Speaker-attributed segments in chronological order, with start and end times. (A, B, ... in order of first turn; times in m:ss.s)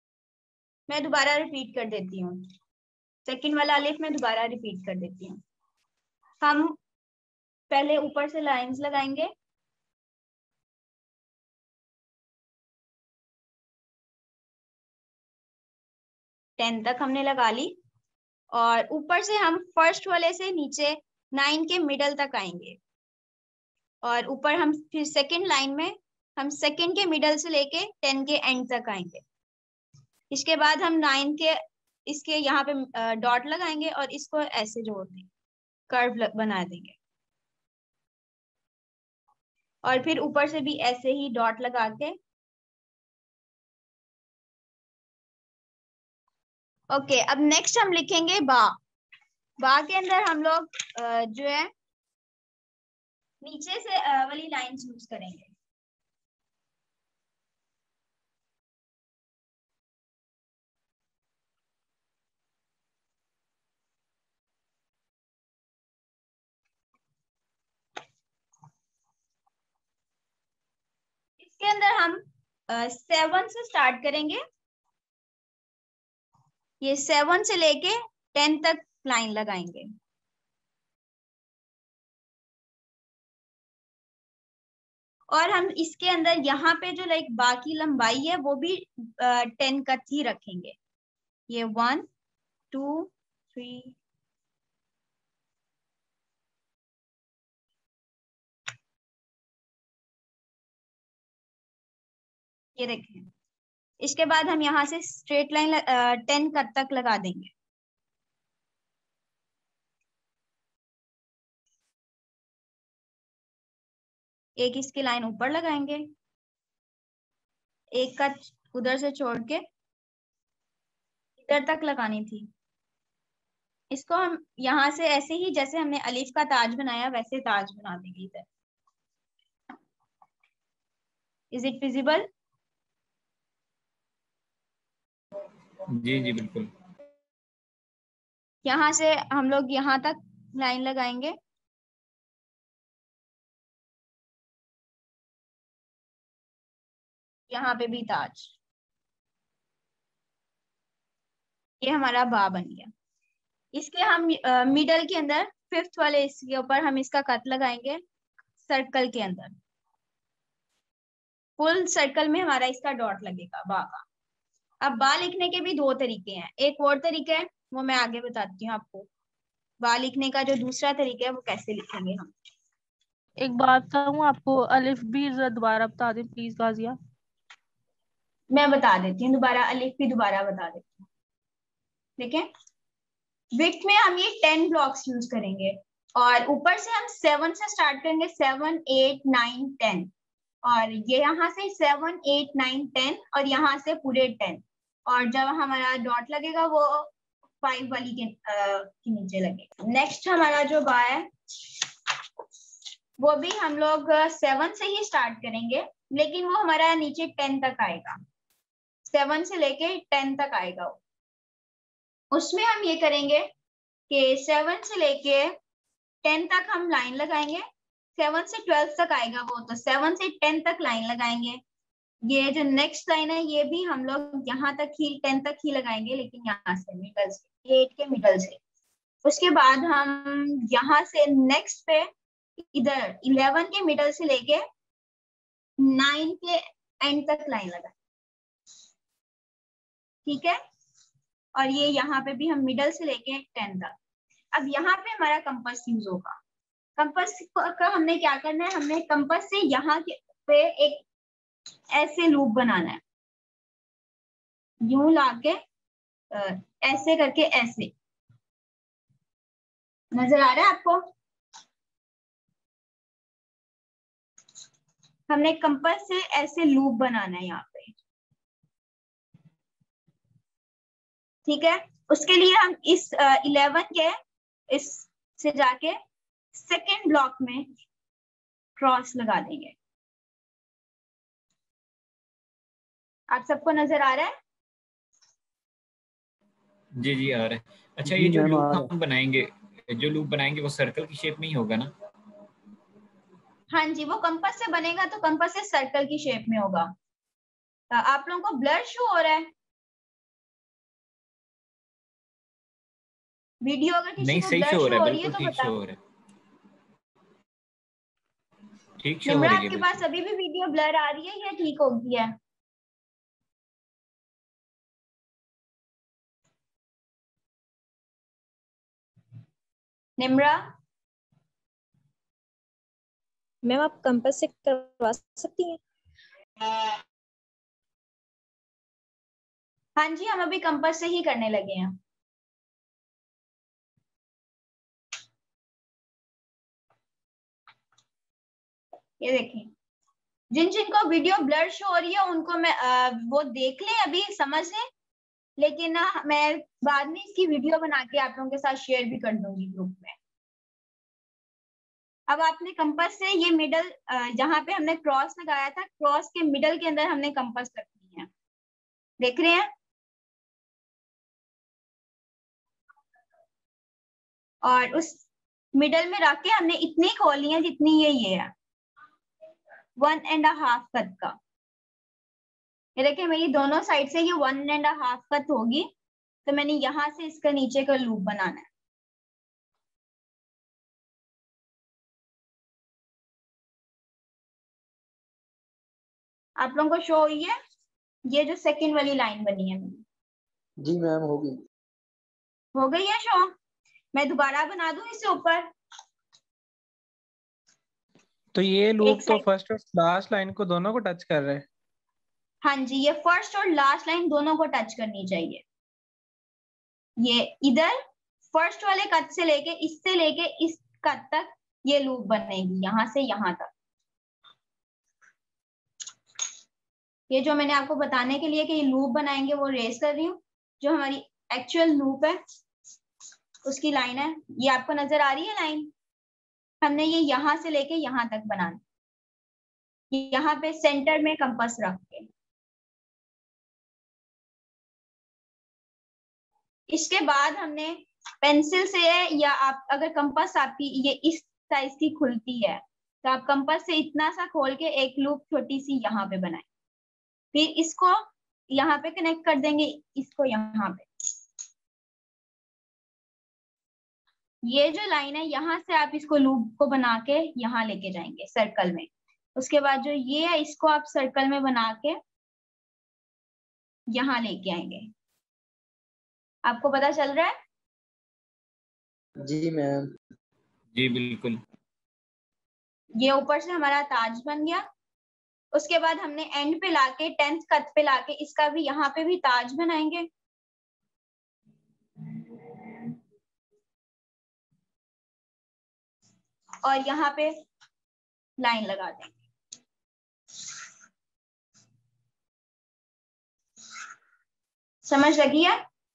0:00.9-0:02.5 A
0:03.2-0:05.4 A
0:06.4-0:06.8 A
0:07.7-0:09.3 A
0:16.6-0:17.7 A
0:18.5-0:22.8 A
0:24.0-0:29.2 A
0:30.3-0:35.3 A
0:35.9-0:37.0 A
0:39.8-0:42.2 A
0:46.9-0:48.8 A
0:49.6-0:51.7 A
0:53.4-0:55.5 A
1:11.4-1:14.4 A
1:16.8-1:19.9 A
1:25.3-1:30.8 A
1:31.5-1:32.0 A
1:32.7-1:33.9 A
1:42.8-1:43.3 A
1:44.0-1:47.5 A
1:54.6-1:56.0 A
1:57.9-1:59.6 A
2:01.4-2:02.5 A
2:03.9-2:08.5 A
2:11.5-2:12.3 A
2:15.9-2:16.7 B
2:18.6-2:21.4 A
2:27.5-2:28.5 A
2:31.8-2:32.9 A
2:33.7-2:38.0 A
2:38.6-2:39.5 A
2:41.6-2:44.0 A
2:44.8-2:49.1 A
2:49.8-2:52.3 A
2:53.4-2:57.0 C
2:58.5-3:00.9 A
3:02.2-3:02.5 A
3:03.6-3:10.1 A
3:10.6-3:17.1 A
3:17.6-3:21.3 A
3:23.2-3:28.2 A
3:29.1-3:31.0 A
3:32.3-3:33.5 A
3:34.1-3:35.5 A
3:36.2-3:37.6 A
3:38.2-3:41.6 A
3:42.3-3:48.6 A
3:49.2-3:52.1 A
3:52.7-3:54.6 A
3:55.8-3:57.9 A
4:00.2-4:00.6 A
4:01.6-4:03.9 A
4:04.5-4:06.4 A
4:07.0-4:11.0 A
4:11.9-4:13.0 A
4:14.8-4:15.6 A
4:16.3-4:17.9 A
4:20.1-4:21.0 A
4:25.3-4:28.0 A
4:31.4-4:34.1 A
4:34.7-4:36.0 A
4:36.5-4:37.7 A
4:38.8-4:39.8 A
4:43.3-4:44.3 A
4:47.0-4:51.9 B
4:48.0-4:48.9 D
4:53.7-4:56.9 A
4:57.9-4:59.5 A
5:03.6-5:05.7 A
5:04.2-5:06.0 B
5:09.0-5:09.9 B
5:09.2-5:12.3 A
5:20.2-5:20.6 A
5:23.6-5:25.8 E
5:30.0-5:31.9 A
5:39.2-5:39.7 A
5:40.5-5:44.8 A
5:45.6-5:50.2 A
5:52.3-5:58.3 A
5:59.2-5:59.7 A
6:04.6-6:05.2 A
6:05.7-6:08.5 A
6:10.0-6:11.4 A
6:13.0-6:15.9 A
6:16.4-6:18.7 A
6:26.6-6:27.5 A
6:28.3-6:30.0 A
6:30.8-6:31.6 D
6:32.7-6:33.5 A
6:34.1-6:35.7 A
6:38.5-6:41.6 F
6:39.0-6:39.4 A
6:42.6-6:45.6 A
6:47.2-6:48.0 A
6:48.5-6:53.7 A
6:57.3-7:02.4 A
7:03.6-7:05.9 A
7:06.8-7:08.8 A
7:10.1-7:12.3 A
7:16.9-7:26.6 A
7:27.5-7:28.2 A
7:28.7-7:31.0 A
7:34.6-7:42.2 A
7:44.1-7:45.1 A
7:46.6-7:47.5 A
7:49.4-7:50.1 D
7:50.9-7:51.6 B
7:53.2-7:54.8 A
7:55.7-8:00.3 A
8:06.8-8:07.6 A
8:08.6-8:09.4 A
8:15.0-8:15.8 A